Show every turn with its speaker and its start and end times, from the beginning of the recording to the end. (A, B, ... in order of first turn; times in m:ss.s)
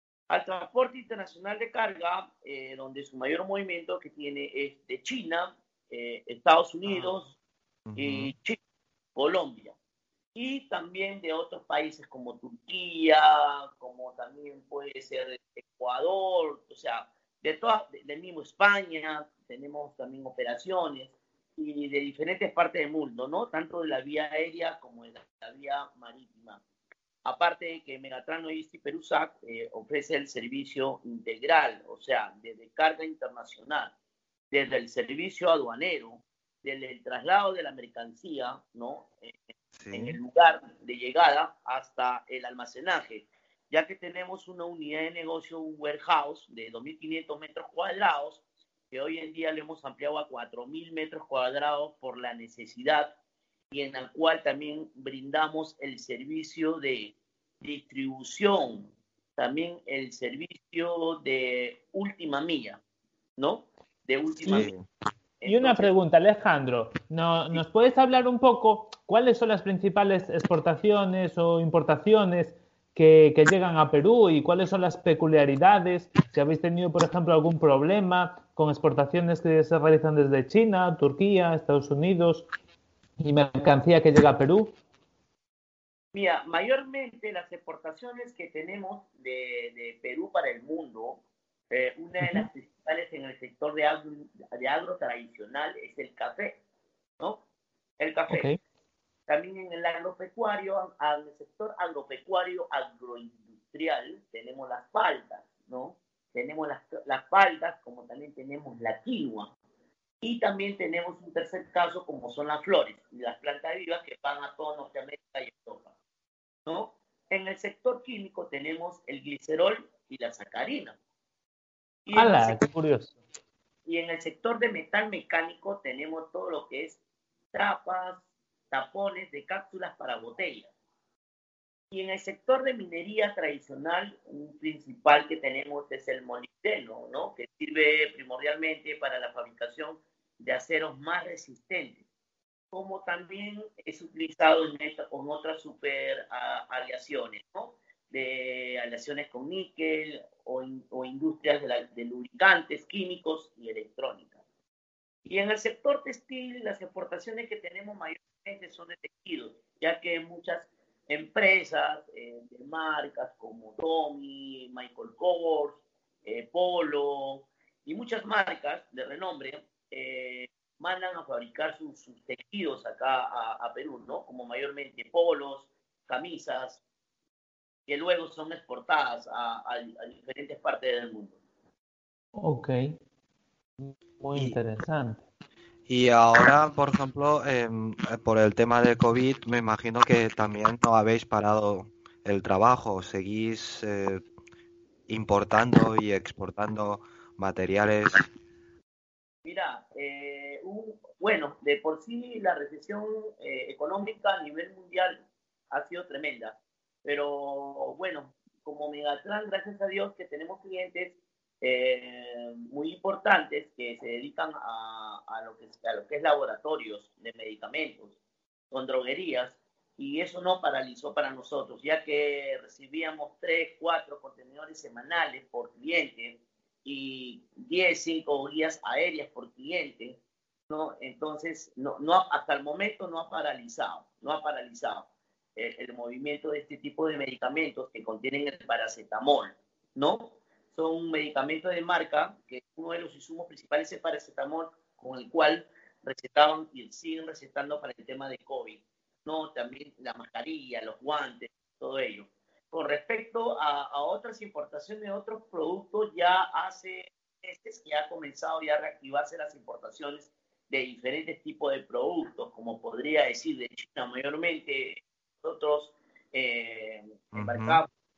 0:00.3-0:07.4 A
0:07.9-0:08.3 B
0:08.0-0:08.6 A
0:09.1-0:09.8 A
0:10.3-0:26.6 A
0:27.2-0:33.9 A
0:34.5-0:39.4 A
0:39.8-0:40.2 B
0:39.9-0:53.1 A
0:53.7-1:02.8 A
1:03.4-1:04.7 A
1:04.4-1:04.8 B
1:05.4-1:05.9 A
1:05.4-1:22.5 C
1:23.2-1:24.8 C
1:26.1-1:36.6 A
1:32.2-1:32.5 C
1:38.0-1:38.5 A
1:38.3-1:38.6 C
1:39.3-1:49.5 A
1:50.2-1:55.9 A
1:56.6-2:01.0 A
2:02.0-2:02.6 A
2:02.1-2:03.2 C
2:03.8-2:07.0 A
2:07.5-2:10.7 A
2:11.9-2:22.0 A
2:22.7-2:34.4 A
2:35.2-2:56.8 A
2:57.9-3:01.4 A
3:02.4-3:02.9 C
3:03.8-3:05.2 C
3:05.9-3:14.2 B
3:15.1-3:18.3 B
3:19.4-3:38.1 A
3:38.7-4:27.9 A
4:27.3-4:27.8 B